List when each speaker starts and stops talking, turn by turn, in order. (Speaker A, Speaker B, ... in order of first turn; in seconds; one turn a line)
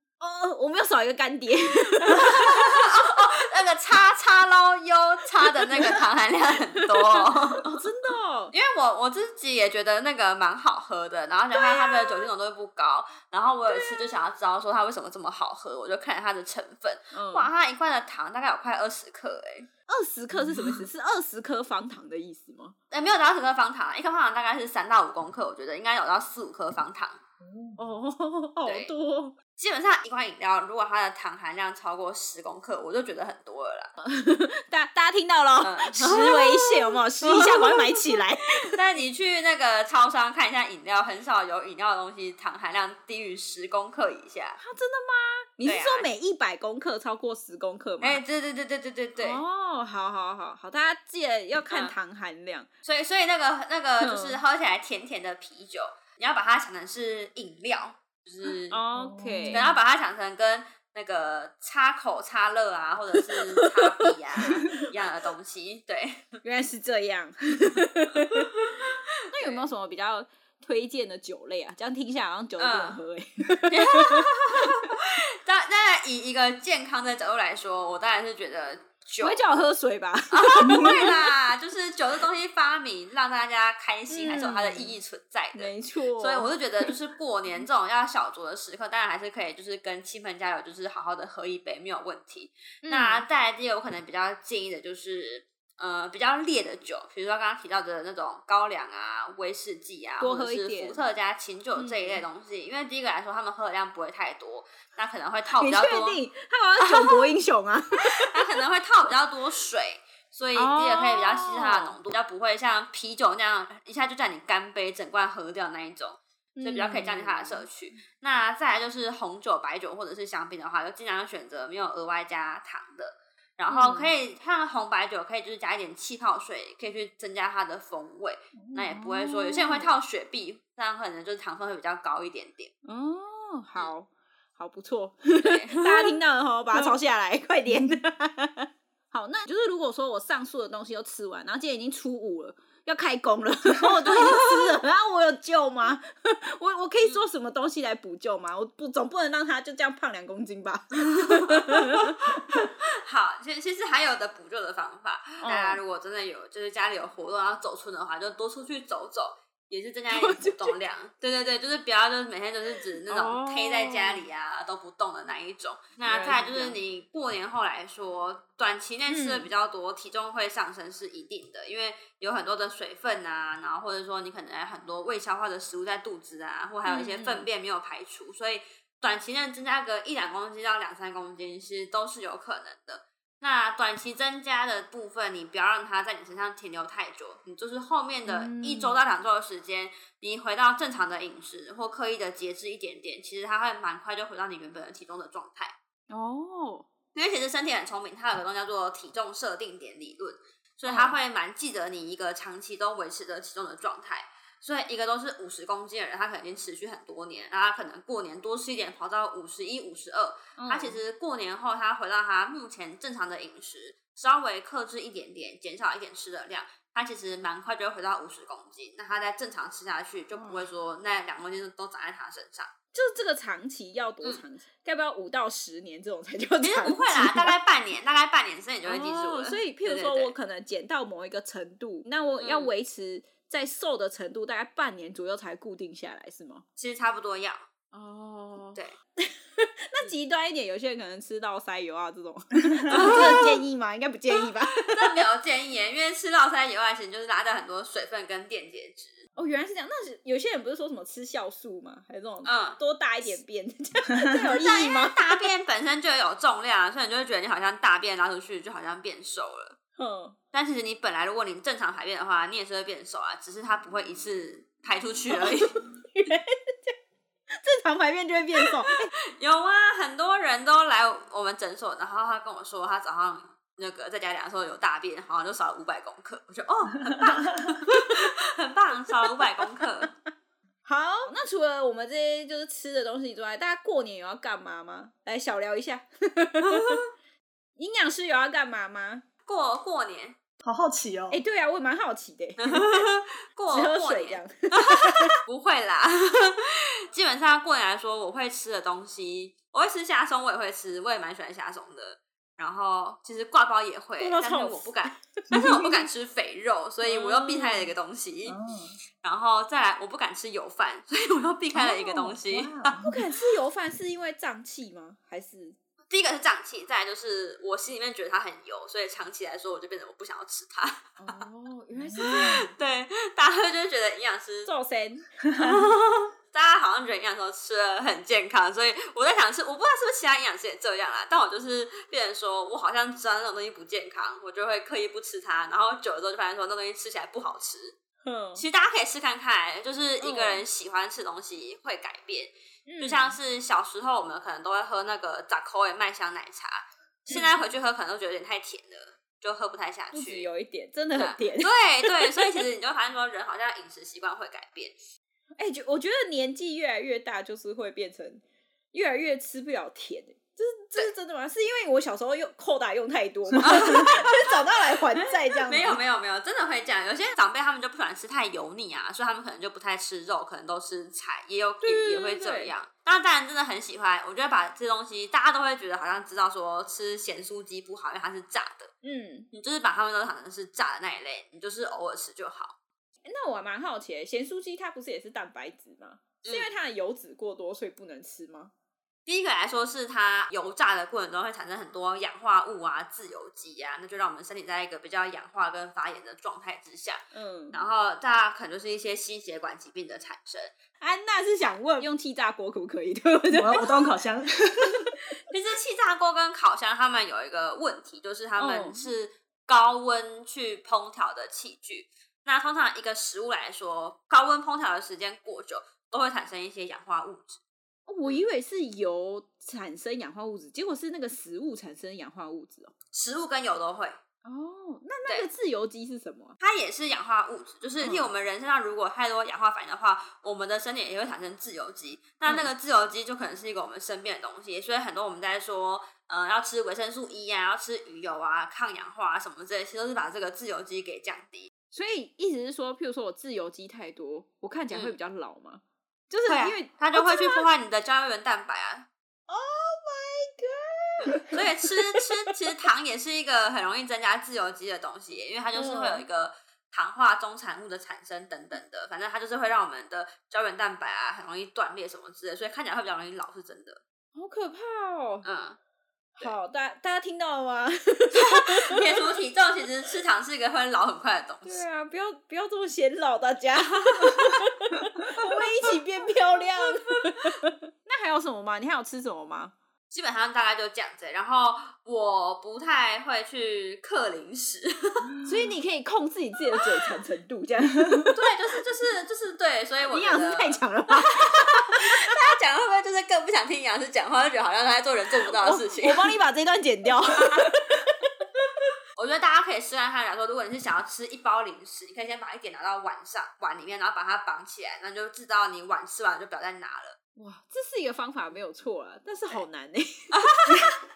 Speaker A: 0.2-2.7
Speaker B: 2.1-7.7
Speaker A: 5.7-6.0
Speaker A: 6.8-8.5
Speaker B: 8.5-19.7
Speaker A: 11.5-12.3
Speaker A: 13.7-14.2
Speaker A: 17.1-17.5
Speaker A: 19.9-22.8
Speaker C: 20.3-20.8
Speaker B: 22.9-27.2
Speaker C: 27.4-27.8
Speaker A: 27.8-29.4
Speaker B: 28.7-28.9
Speaker B: 29.6-33.9
Speaker A: 34.0-38.8
Speaker B: 35.6-44.6
Speaker A: 44.6-48.2
Speaker B: 45.6-46.1
Speaker B: 48.0-49.4
Speaker A: 49.2-52.7
Speaker B: 52.9-58.8
Speaker A: 54.0-54.4
Speaker A: 58.7-59.6
Speaker C: 59.0-59.7
Speaker B: 59.5-66.4
Speaker A: 63.2-64.8
Speaker A: 66.4-68.5
Speaker A: 69.3-74.3
Speaker B: 72.6-73.0
Speaker B: 73.7-79.4
Speaker A: 79.2-81.1
Speaker B: 80.3-106.2
Speaker C: 80.6-81.1
Speaker A: 84.1-84.9
Speaker A: 85.5-86.9
Speaker A: 92.8-93.2
Speaker A: 100.2-101.0
Speaker A: 101.8-102.2
Speaker A: 105.5-108.4
Speaker B: 106.8-107.3
Speaker B: 108.2-132.7
Speaker A: 110.5-112.0
Speaker A: 116.6-117.7
Speaker A: 123.7-124.1
Speaker A: 128.7-129.9
Speaker A: 132.8-152.4
Speaker B: 135.4-136.2
Speaker B: 151.3-195.7
Speaker A: 155.4-155.8
Speaker A: 160.1-160.8
Speaker A: 163.1-164.2
Speaker A: 166.1-166.8
Speaker A: 169.1-169.5
Speaker A: 176.9-177.5
Speaker A: 188.3-189.0
Speaker A: 196.1-196.9
Speaker B: 197.2-222.7
Speaker A: 200.8-201.2
Speaker A: 210.6-211.0
Speaker A: 220.4-220.7
Speaker A: 222.9-227.5
Speaker B: 226.6-230.3
Speaker A: 228.9-236.7
Speaker B: 232.4-232.7
Speaker B: 236.8-237.6
Speaker A: 237.9-245.2
Speaker C: 242.7-243.2
Speaker B: 242.9-243.6
Speaker B: 244.8-249.2
Speaker A: 249.4-255.4
Speaker B: 252.4-252.8
Speaker C: 254.2-254.5
Speaker B: 254.6-259.8
Speaker A: 260.0-260.4
Speaker B: 260.5-265.8
Speaker A: 265.3-266.9
Speaker A: 267.6-269.1
Speaker B: 269.4-280.1
Speaker A: 279.1-279.4
Speaker A: 280.9-287.0
Speaker B: 286.6-287.0
Speaker A: 287.8-289.2
Speaker B: 289.5-290.4
Speaker C: 290.6-291.4
Speaker A: 291.3-293.1
Speaker B: 292.6-308.6
Speaker A: 293.7-295.4
Speaker A: 304.2-305.4
Speaker C: 305.5-306.0
Speaker A: 307.1-307.9
Speaker C: 308.5-309.0
Speaker B: 309.2-313.0
Speaker C: 311.7-313.2
Speaker A: 313.0-315.8
Speaker B: 316.1-321.4
Speaker A: 321.2-322.7
Speaker C: 322.1-322.7
Speaker B: 322.1-324.7
Speaker A: 324.7-325.4
Speaker B: 325.6-338.0
Speaker A: 338.2-338.6
Speaker B: 338.6-350.5
Speaker A: 340.2-340.6
Speaker A: 342.9-343.4
Speaker A: 347.3-347.6
Speaker A: 350.1-352.5
Speaker B: 351.1-355.0
Speaker A: 355.6-358.4
Speaker A: 358.9-366.0
Speaker B: 363.6-364.5
Speaker B: 365.6-378.9
Speaker A: 371.8-372.7
Speaker A: 379.0-379.5
Speaker B: 379.5-382.7
Speaker A: 383.3-388.7
Speaker B: 386.4-386.7
Speaker B: 389.3-397.2
Speaker A: 397.3-397.8
Speaker B: 397.7-400.7
Speaker A: 401.0-404.0
Speaker C: 403.5-405.1
Speaker B: 405.5-417.6
Speaker A: 408.6-409.1
Speaker A: 418.1-422.9
Speaker B: 423.1-424.2
Speaker A: 424.4-426.6
Speaker B: 426.6-441.7
Speaker A: 428.0-428.3
Speaker A: 432.5-432.7
Speaker A: 441.9-447.7
Speaker B: 444.9-445.2
Speaker B: 446.5-449.1
Speaker A: 449.5-452.2
Speaker B: 451.4-464.0
Speaker A: 455.8-456.2
Speaker A: 464.4-465.5
Speaker B: 465.4-465.8
Speaker A: 466.4-469.0
Speaker B: 468.4-471.8
Speaker A: 471.6-479.7
Speaker B: 480.1-485.3
Speaker C: 485.3-485.7
Speaker A: 485.4-488.3
Speaker B: 488.3-496.3
Speaker A: 490.1-492.4
Speaker A: 495.6-498.1
Speaker B: 497.2-497.8
Speaker B: 499.2-507.2
Speaker A: 507.4-510.8
Speaker B: 510.3-510.9